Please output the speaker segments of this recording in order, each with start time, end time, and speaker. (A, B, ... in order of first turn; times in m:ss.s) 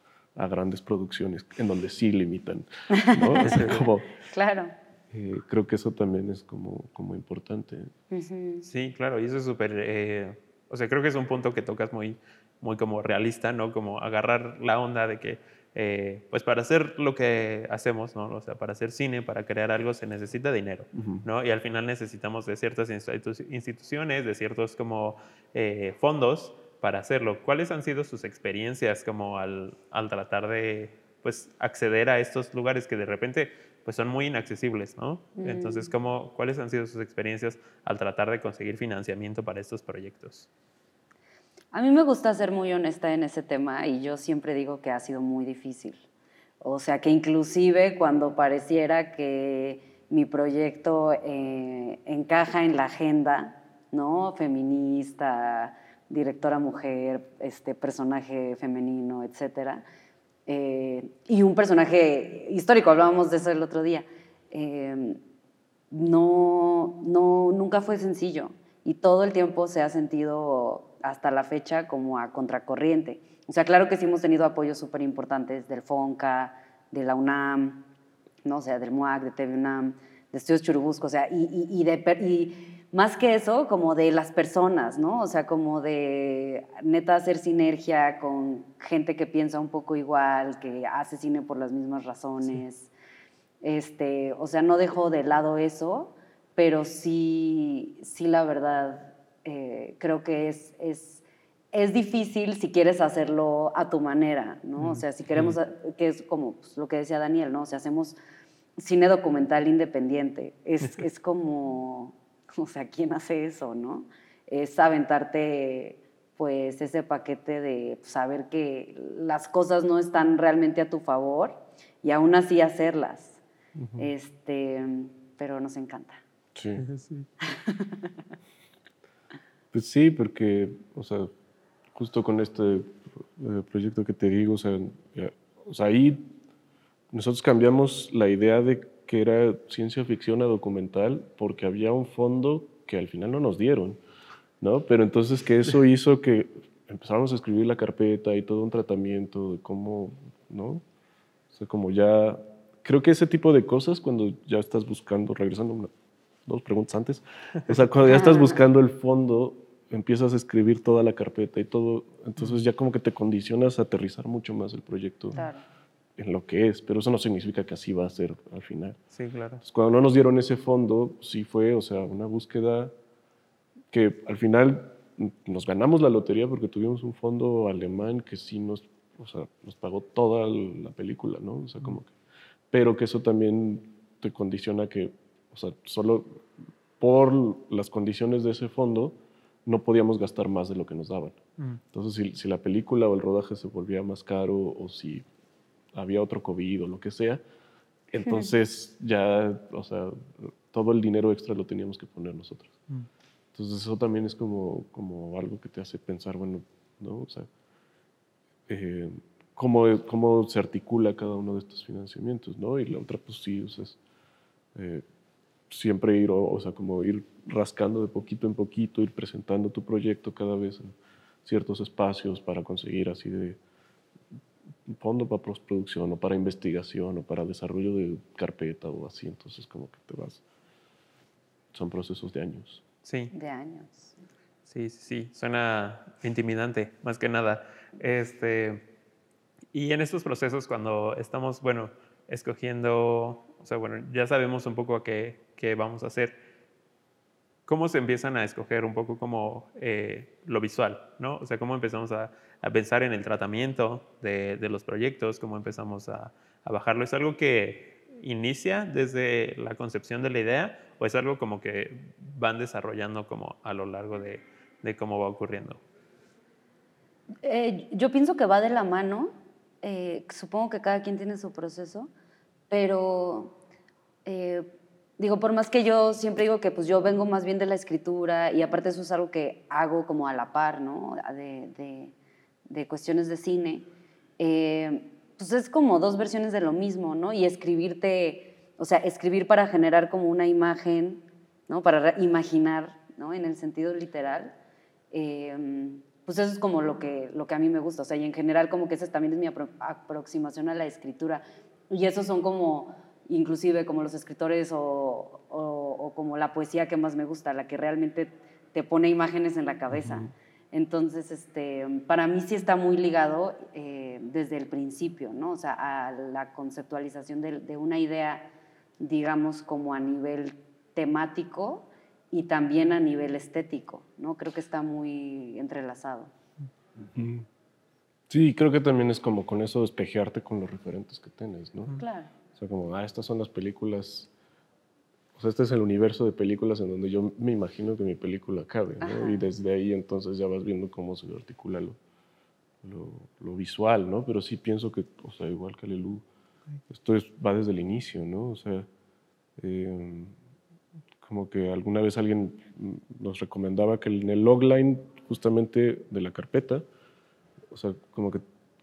0:00.4-0:04.1 A
0:02.9-0:03.6 B
0:03.4-0:03.8 C
0:04.2-0:04.7 B
0:05.1-0:07.9 A
0:08.1-0:08.7 B
0:08.6-0:40.5 C
0:20.9-0:21.2 A
0:35.4-0:35.9 B
0:41.7-0:46.0 B
0:46.6-0:59.8 B
1:00.5-1:05.2 B
1:05.9-1:17.8 B
1:18.4-1:32.9 B
1:33.6-1:48.2 B
1:44.8-1:45.5 C
1:48.8-2:03.4 B
2:03.8-2:04.1 A
2:04.0-2:06.2 B
2:06.5-2:06.8 A
2:06.8-2:07.3 C
2:07.4-2:08.1 B
2:09.7-2:11.3 A
2:11.9-2:16.3 A
2:17.1-2:24.0 A
2:24.6-2:30.8 A
2:31.5-2:35.9 A
2:36.4-2:45.4 A
2:38.1-2:38.5 B
2:45.3-2:45.6 B
2:46.2-2:49.0 A
2:49.1-2:49.6 C
2:49.6-2:52.9 A
2:53.9-3:02.1 A
3:02.7-3:06.4 A
3:07.0-3:11.4 A
3:11.9-3:15.2 A
3:15.9-3:17.4 A
3:18.1-3:22.8 A
3:18.2-3:18.5 B
3:23.5-3:27.5 A
3:28.7-3:34.0 A
3:34.7-3:35.0 A
3:35.7-3:43.6 A
3:44.8-3:50.4 A
3:51.7-3:52.8 A
3:53.0-3:53.3 C
3:53.3-3:54.1 B
3:54.7-3:58.9 C
3:59.7-4:06.4 C
4:07.7-4:25.8 C
4:27.4-4:32.1 B
4:32.7-4:33.6 B
4:34.2-4:42.1 B
4:42.7-4:43.9 B
4:44.4-4:54.5 B
4:55.1-5:26.3 B
5:27.0-5:27.5 A
5:28.3-5:32.0 A
5:32.0-5:32.3 B
5:32.5-5:34.3 A
5:35.3-5:42.0 A
5:39.0-5:39.5 B
5:42.8-5:46.2 A
5:46.9-5:48.9 A
5:49.6-5:50.4 A
5:51.2-5:56.8 A
5:57.7-5:58.4 A